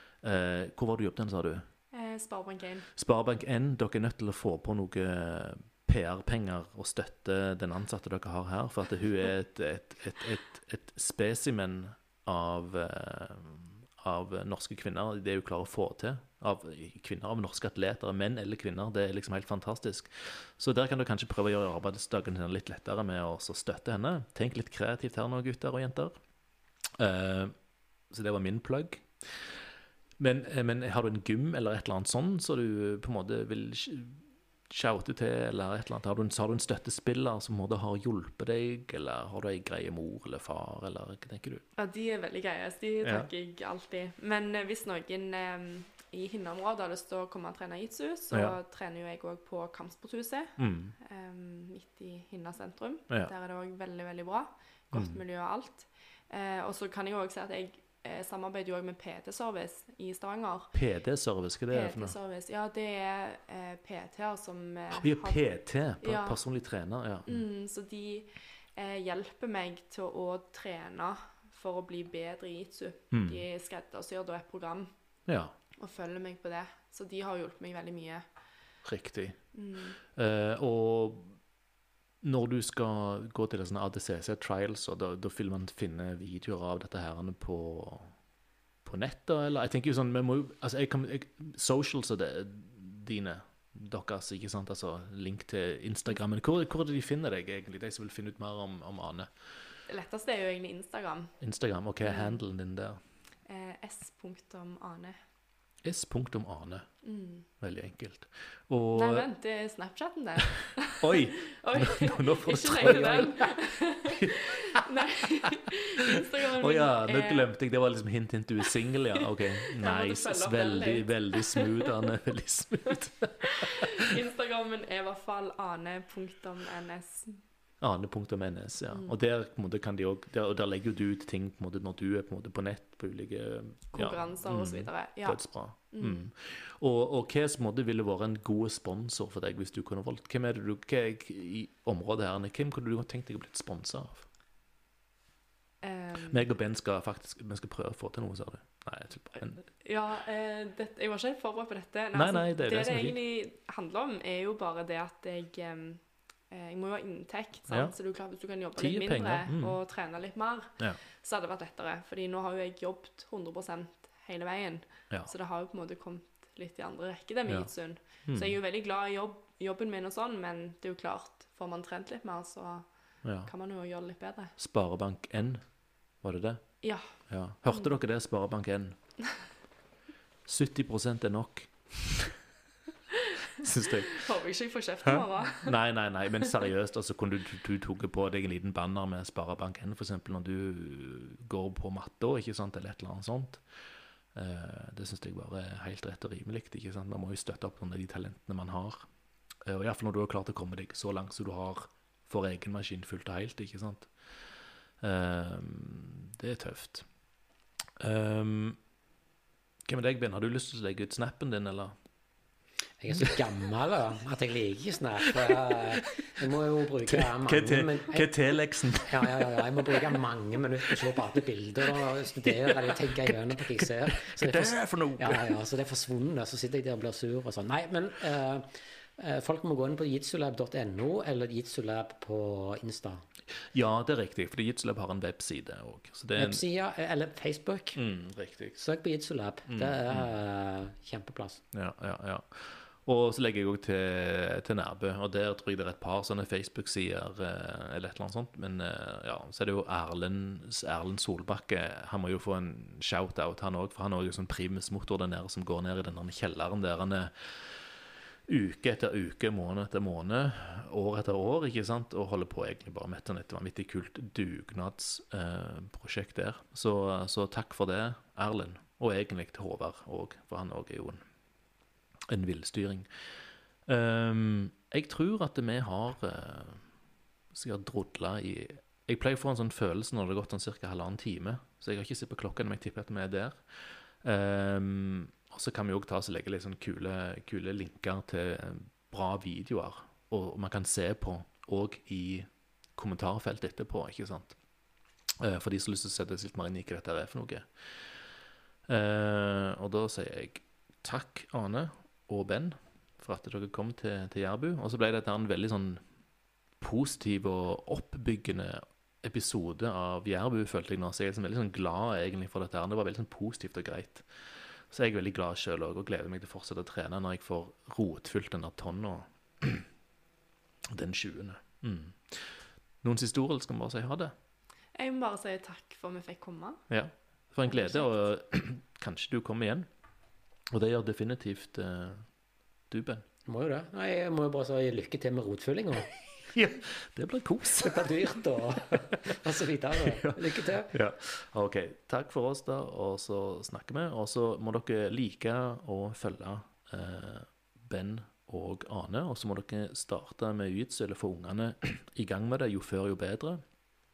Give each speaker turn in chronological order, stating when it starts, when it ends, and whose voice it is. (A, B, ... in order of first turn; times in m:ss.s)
0:00.2-0:01.7 A
0:01.9-0:02.9 B
0:03.0-0:26.2 A
0:27.0-0:27.6 A
0:28.1-0:29.6 A
0:30.2-0:41.6 A
0:41.8-1:00.7 B
0:43.0-0:43.3 A
0:48.3-0:48.6 A
0:50.6-0:51.0 A
0:54.9-0:55.2 A
1:00.7-1:02.2 A
1:01.7-1:05.4 B
1:04.9-1:07.4 A
1:06.0-1:06.4 B
1:07.3-1:14.9 B
1:13.1-1:13.4 A
1:15.3-1:15.5 A
1:15.8-1:18.3 B
1:18.8-1:19.5 A
1:19.5-1:20.0 B
1:20.0-1:21.4 A
1:22.2-1:28.2 A
1:28.8-1:39.3 A
1:39.9-1:41.4 B
1:41.4-1:43.0 A
1:42.0-1:42.4 B
1:43.5-1:45.2 B
1:45.8-1:46.9 A
1:47.0-1:47.5 B
1:47.6-1:49.3 A
1:48.9-1:57.5 B
1:51.0-1:53.6 A
1:54.1-1:54.8 A
1:56.1-2:04.2 A
1:59.2-2:02.1 B
2:02.9-2:07.4 B
2:07.8-2:24.3 A
2:13.9-2:16.3 B
2:25.8-2:26.4 B
2:26.3-2:29.7 A
2:29.8-2:54.5 B
2:32.1-2:33.2 A
2:37.7-2:37.9 A
2:38.8-2:39.8 A
2:48.2-2:48.6 A
2:53.2-2:53.5 A
2:54.6-2:59.0 A
2:56.8-2:57.9 B
3:00.5-3:02.4 A
3:03.6-3:04.2 A
3:04.1-3:05.8 B
3:05.0-3:13.6 A
3:14.3-3:19.1 A
3:19.6-3:27.1 A
3:28.0-3:28.8 A
3:29.8-3:32.0 A
3:33.0-3:38.3 C
3:33.1-3:33.4 A
3:35.2-3:35.8 A
3:37.1-3:39.8 A
3:38.9-3:53.2 C
3:42.4-3:45.6 A
3:53.6-3:56.6 A
3:56.4-3:58.0 C
3:58.0-3:58.8 A
3:58.8-4:01.6 C
3:59.7-4:00.4 A
4:01.7-4:31.2 A
4:32.3-4:36.8 A
4:37.5-4:54.6 A
4:55.4-4:58.2 A
4:58.9-5:06.0 A
5:06.8-5:19.9 A
5:20.9-5:24.3 A
5:25.0-5:26.8 B
5:26.9-5:29.9 A
5:27.6-5:28.3 B
5:30.7-5:32.3 A
5:32.9-5:33.2 A
5:33.5-5:36.1 C
5:36.5-5:38.2 A
5:37.8-5:40.9 C
5:40.0-5:53.6 A